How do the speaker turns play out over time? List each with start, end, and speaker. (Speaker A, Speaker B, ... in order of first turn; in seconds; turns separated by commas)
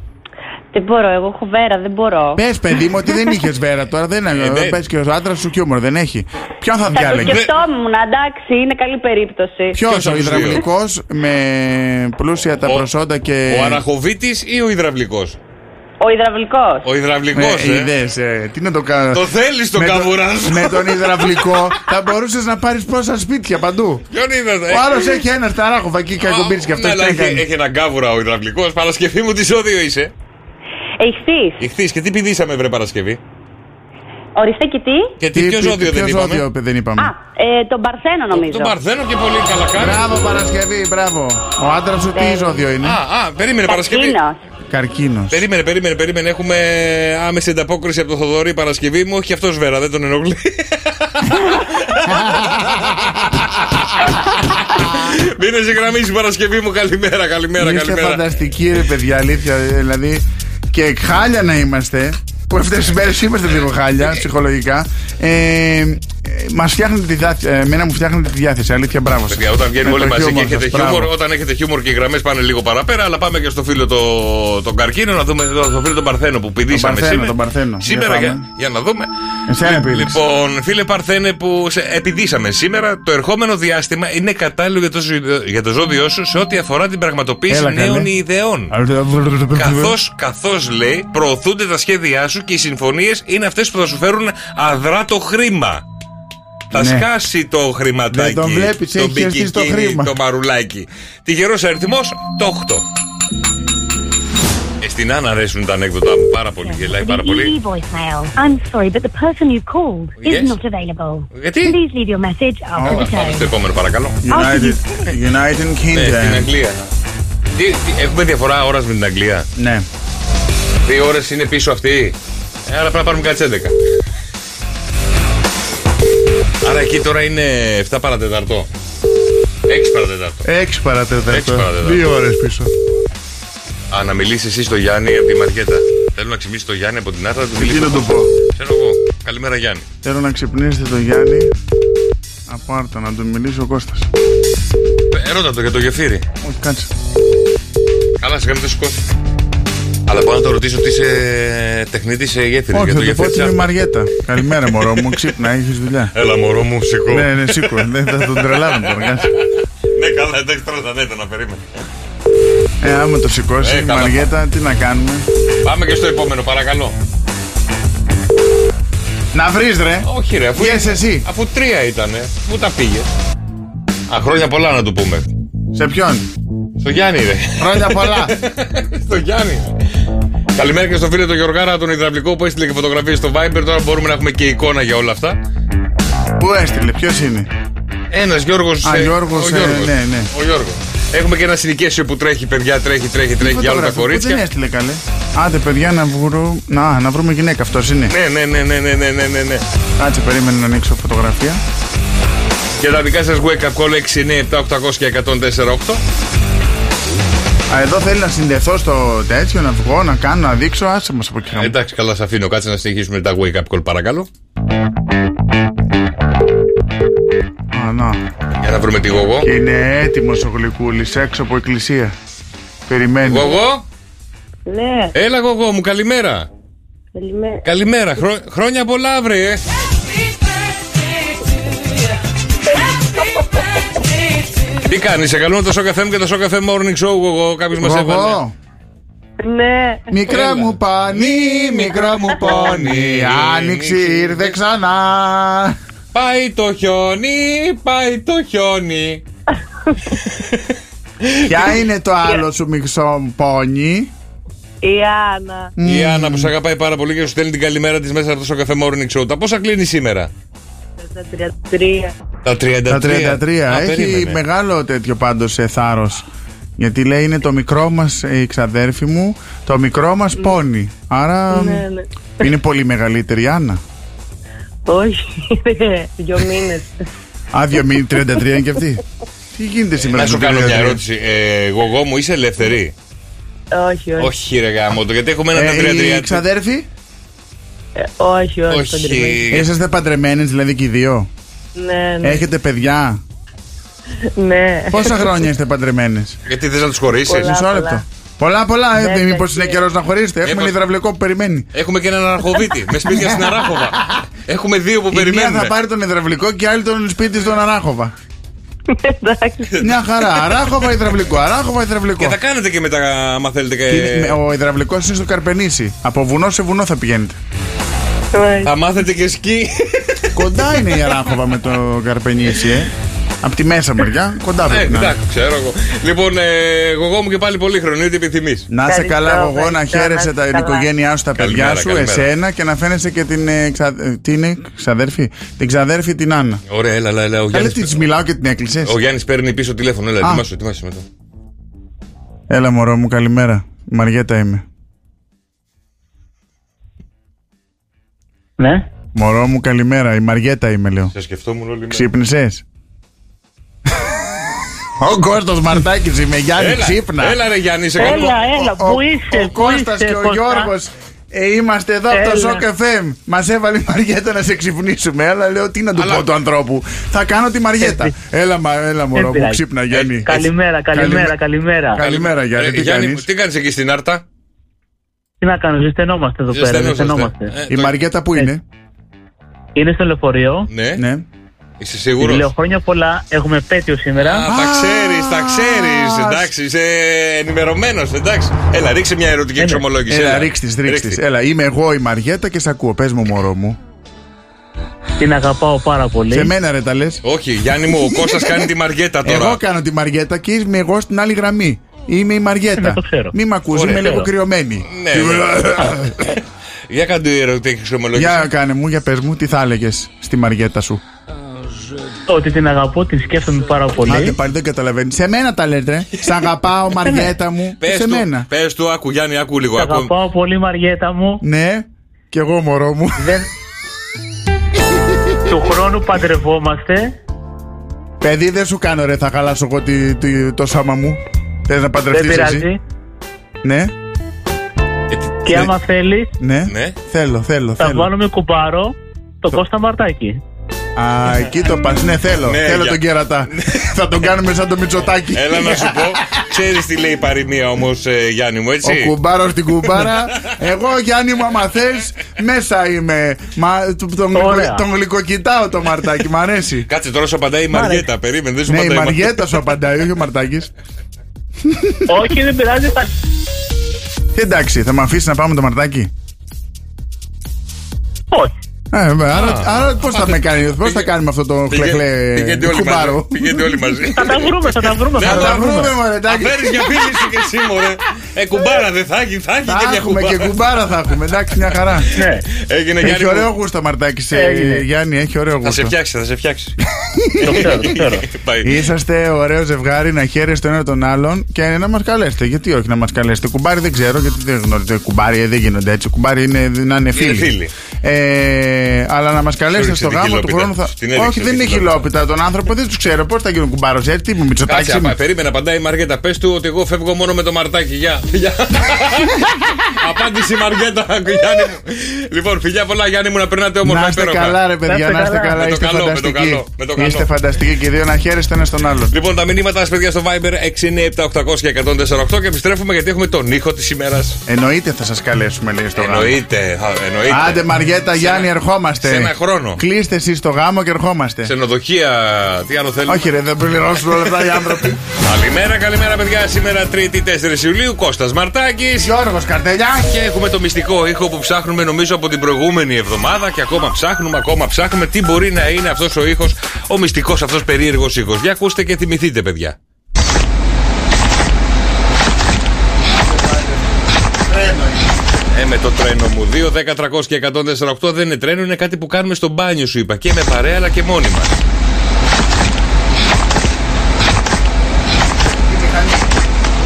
Speaker A: 0.7-2.4, Speaker B: 2.4-7.4, Speaker C: 4.3-4.8, Speaker A: 6.9-9.8, Speaker C: 7.1-7.5, Speaker B: 9.7-13.8, Speaker C: 9.8-10.6, Speaker C: 13.5-15.4, Speaker A: 16.0-16.9, Speaker C: 16.8-17.9, Speaker B: 17.3-24.0, Speaker C: 19.1-21.6, Speaker C: 24.1-25.2, Speaker B: 24.7-27.4, Speaker C: 26.2-30.1, Speaker A: 31.0-31.6, Speaker C: 31.6-33.2, Speaker A: 34.4-35.1, Speaker C: 35.2-36.4, Speaker B: 35.3-37.1, Speaker A: 37.0-38.7, Speaker C: 38.3-40.1, Speaker B: 39.8-43.0, Speaker A: 42.1-42.6, Speaker C: 42.8-44.2, Speaker A: 43.7-44.4, Speaker B: 44.7-45.4, Speaker C: 45.3-53.2, Speaker C: 54.0-58.2, Speaker B: 57.6-71.1, Speaker C: 69.3-79.1, Speaker B: 76.7-78.4, Speaker B: 79.5-80.2, Speaker C: 79.6-88.7, Speaker B: 87.5-88.1, Speaker B: 88.7-90.0, Speaker C: 89.5-95.8, Speaker C: 96.7-102.8, Speaker B: 96.7-97.0, Speaker B: 98.1-100.1, Speaker C: 104.8-107.6, Speaker D: 106.6-113.5, Speaker C: 110.2-110.6, Speaker C: 111.3-111.8, Speaker B: 112.7-113.1, Speaker C: 112.8-114.2, Speaker B: 114.2-116.5, Speaker D: 114.3-115.1, Speaker C: 115.9-116.8, Speaker C: 117.5-119.5, Speaker B: 119.5-119.8, Speaker C: 120.8-123.7, Speaker C: 126.6-128.7, Speaker C: 129.7-130.4, Speaker B: 130.4-132.7, Speaker C: 131.3-132.0, Speaker C: 133.9-139.8, Speaker B: 137.6-138.3, Speaker B: 140.0-141.5, Speaker B: 142.5-144.1, Speaker C: 145.1-146.2, Speaker B: 146.4-146.9, Speaker C: 148.2-149.0, Speaker C: 150.1-153.7, Speaker B: 152.7-156.1, Speaker C: 154.8-155.1, Speaker C: 156.1-159.4, Speaker B: 157.1-159.3, Speaker C: 159.9-161.6, Speaker B: 162.8-165.3, Speaker C: 163.6-164.3, Speaker C: 165.6-166.9, Speaker B: 169.3-171.2, Speaker C: 170.0-173.1, Speaker C: 174.1-175.3, Speaker B: 175.7-176.3, Speaker C: 176.8-179.7, Speaker B: 177.6-178.3, Speaker C: 180.5-185.4, Speaker B: 186.4-187.5, Speaker C: 188.1-194.4, Speaker B: 188.8-190.3, Speaker B: 193.4-198.1, Speaker C: 198.1-199.6, Speaker B: 200.0-201.6, Speaker C: 202.8-206.0, Speaker B: 207.7-211.7, Speaker C: 211.5-214.3, Speaker B: 217.7-218.2, Speaker C: 218.6-219.5, Speaker B: 219.4-222.1, Speaker B: 222.9-223.5, Speaker C: 223.2-223.8, Speaker E: 224.7-225.1, Speaker C: 225.1-226.5, Speaker E: 227.1-227.6, Speaker C: 227.6-229.6, Speaker C: 234.8-238.4, Speaker B: 237.8-238.5, Speaker E: 239.4-240.1, Speaker B: 240.1-245.8, Speaker C: 240.3-244.6, Speaker C: 246.1-249.2, Speaker B: 251.5-254.1, Speaker E: 254.8-255.7, Speaker B: 255.8-256.5, Speaker C: 255.8-260.3, Speaker E: 261.0-262.1, Speaker C: 262.4-264.4, Speaker B: 262.9-266.2, Speaker B: 266.8-271.9, Speaker E: 271.5-272.0, Speaker B: 272.4-273.8, Speaker E: 274.9-277.0, Speaker B: 277.5-279.0, Speaker B: 279.5-281.0, Speaker C: 280.1-282.9, Speaker E: 283.7-284.3, Speaker C: 284.2-286.4, Speaker B: 285.5-286.9, Speaker E: 287.9-289.4, Speaker C: 288.7-289.7, Speaker B: 289.5-291.3, Speaker E: 291.8-292.4, Speaker B: 292.2-293.2, Speaker E: 294.3-295.3, Speaker B: 294.9-296.4, Speaker C: 296.5-297.5, Speaker E: 297.3-298.0, Speaker B: 297.4-301.7, Speaker E: 299.0-299.8, Speaker C: 300.4-300.7, Speaker C: 301.7-305.7, Speaker B: 303.1-303.9, Speaker B: 305.1-308.1, Speaker E: 308.9-309.8, Speaker B: 309.8-312.4, Speaker C: 312.2-314.4, Speaker B: 313.9-317.4, Speaker E: 318.3-318.7, Speaker C: 318.6-320.3, Speaker B: 320.3-325.1, Speaker C: 324.7-328.7, Speaker B: 328.7-336.6, Speaker E: 328.9-330.9, Speaker C: 331.4-332.3, Speaker C: 336.7-338.1, Speaker B: 337.5-339.0, Speaker C: 338.8-341.0, Speaker B: 342.5-344.6, Speaker F: 348.6-348.8, Speaker B: 349.1-351.1, Speaker C: 351.1-352.1, Speaker B: 351.9-352.6, Speaker B: 355.0-357.4, Speaker C: 356.6-358.5, Speaker F: 358.0-360.7, Speaker B: 358.0-371.3, Speaker F: 362.1-362.6, Speaker C: 365.9-366.3, Speaker F: 367.8-368.1, Speaker F: 369.1-369.6, Speaker C: 369.9-370.4, Speaker F: 370.2-372.0, Speaker B: 371.9-373.2, Speaker C: 372.0-374.2, Speaker F: 375.4-377.5, Speaker C: 376.5-377.9, Speaker B: 377.7-378.6, Speaker F: 379.8-380.7, Speaker C: 380.7-381.0, Speaker B: 380.9-381.3, Speaker C: 381.8-382.5, Speaker F: 382.2-384.4, Speaker C: 384.1-391.2, Speaker B: 384.4-386.5, Speaker F: 389.6-389.9, Speaker B: 390.1-393.8, Speaker F: 395.2-396.5, Speaker B: 396.3-397.2, Speaker C: 397.2-399.6, Speaker B: 398.1-398.6, Speaker B: 399.2-406.3, Speaker F: 402.8-403.3, Speaker C: 403.7-404.2, Speaker F: 403.9-404.3, Speaker C: 404.9-406.4, Speaker C: 406.9-408.5, Speaker B: 408.1-411.0, Speaker F: 412.3-414.4, Speaker B: 414.0-418.5, Speaker F: 417.0-417.3, Speaker C: 417.8-420.1, Speaker F: 419.8-421.4, Speaker B: 421.4-423.3, Speaker F: 423.2-423.5, Speaker F: 425.5-427.1, Speaker B: 428.2-432.7, Speaker F: 432.1-432.8, Speaker B: 433.6-433.9, Speaker C: 435.1-435.7, Speaker F: 435.4-436.3, Speaker B: 436.4-438.1, Speaker C: 436.7-436.9, Speaker F: 437.8-440.4, Speaker B: 440.9-446.2, Speaker C: 442.4-443.9, Speaker C: 445.3-449.1, Speaker B: 448.8-456.9, Speaker F: 454.3-454.8, Speaker C: 456.9-459.5, Speaker B: 458.7-460.7, Speaker B: 461.6-462.0, Speaker F: 462.1-463.1, Speaker B: 464.3-466.1, Speaker B: 468.9-473.6, Speaker C: 469.3-471.1, Speaker C: 471.7-480.6, Speaker F: 474.1-475.9, Speaker B: 475.2-477.1, Speaker B: 479.6-482.1, Speaker C: 482.1-483.5, Speaker F: 482.1-482.4, Speaker B: 483.0-485.9, Speaker F: 484.3-484.8, Speaker C: 485.6-486.8, Speaker B: 487.0-487.9, Speaker C: 487.4-488.8, Speaker F: 487.4-488.2, Speaker B: 488.6-505.1, Speaker C: 497.1-497.7, Speaker C: 499.7-502.1, Speaker C: 504.6-514.6, Speaker B: 513.8-519.1, Speaker E: 515.0-515.3, Speaker C: 515.3-517.3, Speaker C: 519.1-524.4, Speaker B: 524.5-526.4, Speaker C: 526.0-529.8, Speaker B: 527.3-531.5, Speaker C: 531.4-533.3, Speaker B: 533.1-535.0, Speaker C: 535.2-539.1, Speaker B: 539.0-540.1, Speaker C: 540.0-549.8, Speaker B: 553.1-555.1, Speaker C: 555.5-561.6, Speaker B: 565.4-566.3